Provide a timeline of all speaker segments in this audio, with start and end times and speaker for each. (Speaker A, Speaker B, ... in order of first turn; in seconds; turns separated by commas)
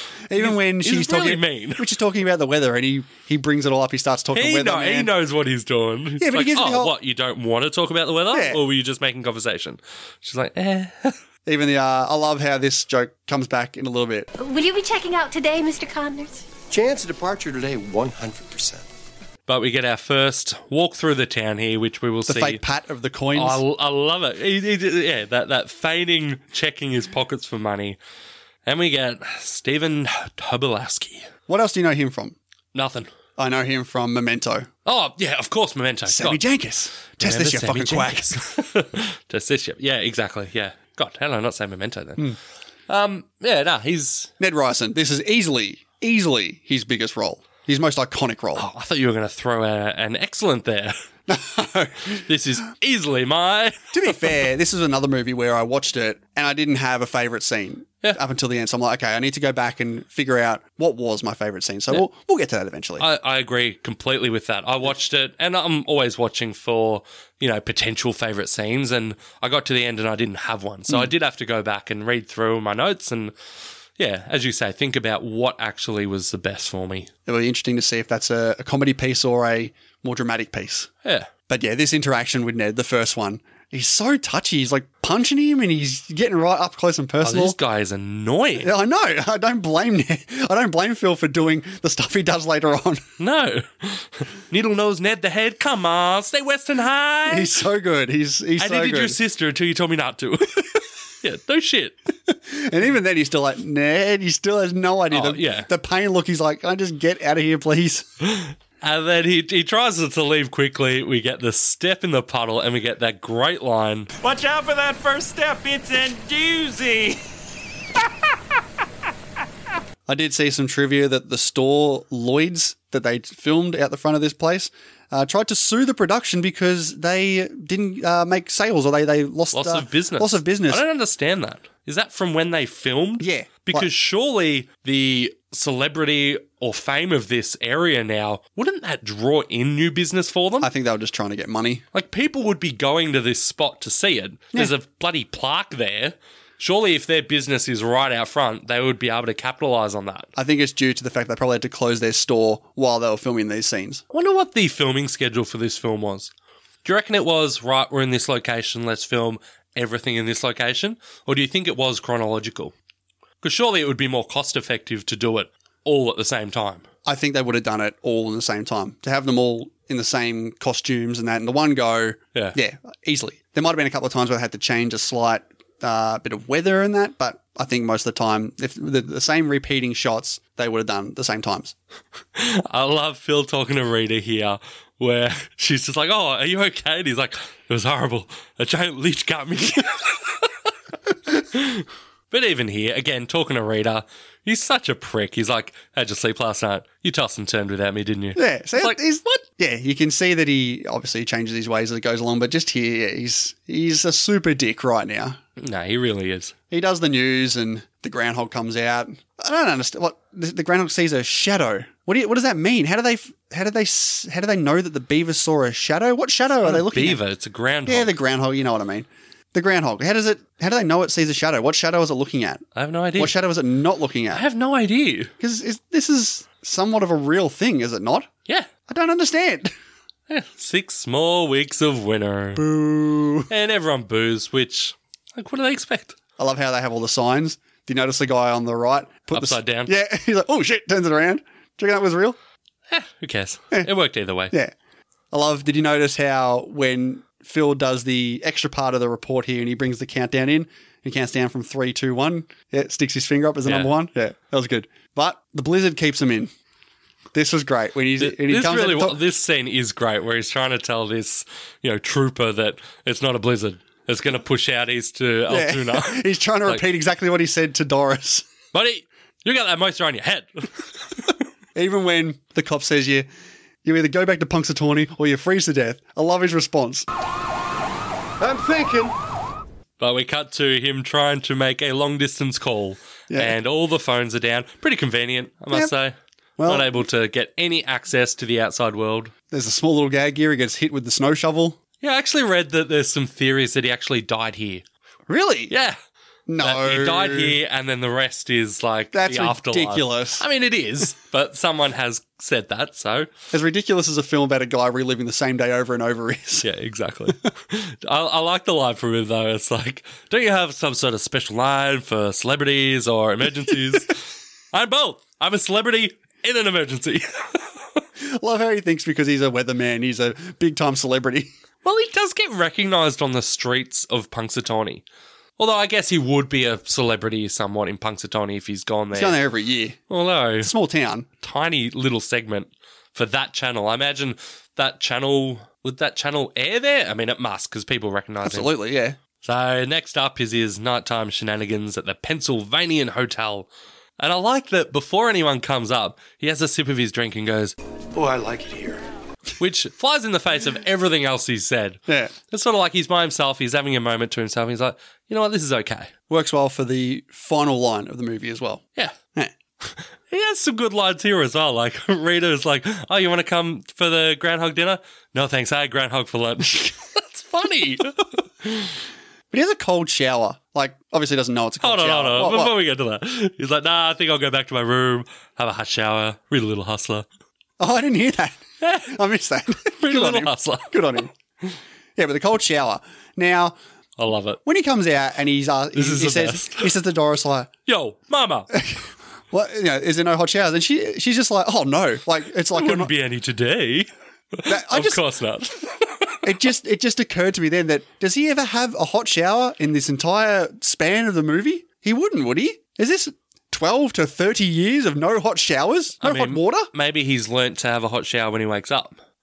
Speaker A: 0.3-5.1, Speaker B: 0.4-1.8, Speaker B: 4.3-11.2, Speaker A: 6.2-6.9, Speaker A: 8.3-8.6, Speaker A: 11.4-14.3, Speaker C: 14.4-16.4, Speaker D: 16.7-18.9, Speaker B: 19.5-22.6, Speaker A: 22.2-23.6, Speaker B: 23.3-28.0, Speaker B: 28.6-31.3, Speaker A: 31.5-32.4, Speaker B: 32.7-33.1, Speaker A: 33.4-34.7, Speaker B: 34.8-36.4, Speaker A: 36.1-38.4, Speaker B: 37.2-42.3, Speaker B: 42.9-44.3, Speaker A: 44.4-48.7, Speaker B: 48.5-51.0, Speaker A: 51.3-52.2, Speaker B: 52.1-53.9, Speaker A: 53.9-63.0, Speaker B: 63.0-73.3, Speaker B: 74.0-77.1, Speaker A: 77.2-80.9, Speaker B: 81.0-81.3, Speaker A: 81.5-87.6, Speaker B: 87.2-88.7, Speaker A: 88.6-93.0, Speaker B: 93.2-97.5, Speaker A: 97.3-99.2, Speaker B: 98.6-102.0, Speaker A: 102.3-108.1, Speaker B: 105.1-105.7, Speaker B: 108.2-114.1, Speaker E: 114.2-117.2, Speaker A: 120.0-130.8, Speaker B: 129.5-140.7, Speaker A: 133.2-133.9, Speaker A: 140.6-141.8, Speaker B: 141.9-150.3, Speaker A: 150.3-154.0, Speaker B: 154.1-156.3, Speaker B: 156.8-162.7, Speaker B: 163.4-166.8, Speaker A: 167.0-181.7, Speaker B: 182.3-190.5, Speaker B: 191.5-199.4, Speaker A: 198.3-205.4, Speaker B: 205.6-206.5, Speaker A: 206.7-217.2, Speaker B: 216.6-218.2, Speaker A: 217.8-222.6, Speaker B: 222.7-223.3, Speaker A: 223.2-224.4, Speaker B: 224.3-225.3, Speaker A: 225.4-228.3, Speaker A: 228.9-229.7, Speaker B: 230.3-232.6, Speaker A: 232.6-233.5, Speaker B: 233.5-236.2, Speaker A: 236.4-242.4, Speaker B: 239.3-239.9, Speaker B: 242.9-244.5, Speaker A: 245.3-256.5, Speaker B: 253.7-253.9, Speaker A: 257.3-259.2, Speaker B: 258.2-266.8, Speaker A: 265.5-268.4, Speaker B: 268.7-270.8, Speaker A: 271.7-273.3, Speaker A: 273.8-277.1, Speaker D: 278.4-279.1, Speaker B: 280.0-289.3, Speaker A: 283.3-283.6, Speaker A: 286.6-286.9, Speaker A: 289.5-291.8, Speaker B: 292.0-294.8, Speaker A: 295.3-295.7, Speaker B: 295.7-296.0, Speaker A: 296.5-297.6, Speaker B: 296.6-303.3, Speaker A: 299.1-300.4, Speaker A: 303.5-306.7, Speaker B: 306.6-318.0, Speaker A: 318.2-321.5, Speaker B: 321.8-325.0, Speaker B: 325.6-329.4, Speaker A: 329.1-330.0, Speaker B: 330.1-330.7, Speaker A: 330.6-331.3, Speaker B: 331.4-338.7, Speaker A: 338.4-339.2, Speaker B: 339.4-343.7, Speaker B: 344.2-347.7, Speaker D: 348.1-349.0, Speaker B: 349.6-356.1, Speaker A: 352.1-352.3, Speaker A: 356.3-358.8, Speaker B: 360.3-368.9, Speaker A: 369.5-372.7, Speaker B: 371.8-377.2, Speaker A: 377.8-381.3, Speaker B: 378.8-379.1, Speaker B: 380.0-381.2, Speaker A: 382.1-383.8, Speaker B: 384.2-384.6, Speaker A: 384.6-387.7, Speaker B: 385.9-386.9, Speaker B: 387.9-388.7, Speaker A: 388.7-393.1, Speaker B: 392.7-396.4, Speaker A: 394.6-395.2, Speaker A: 396.4-406.9, Speaker B: 406.2-409.2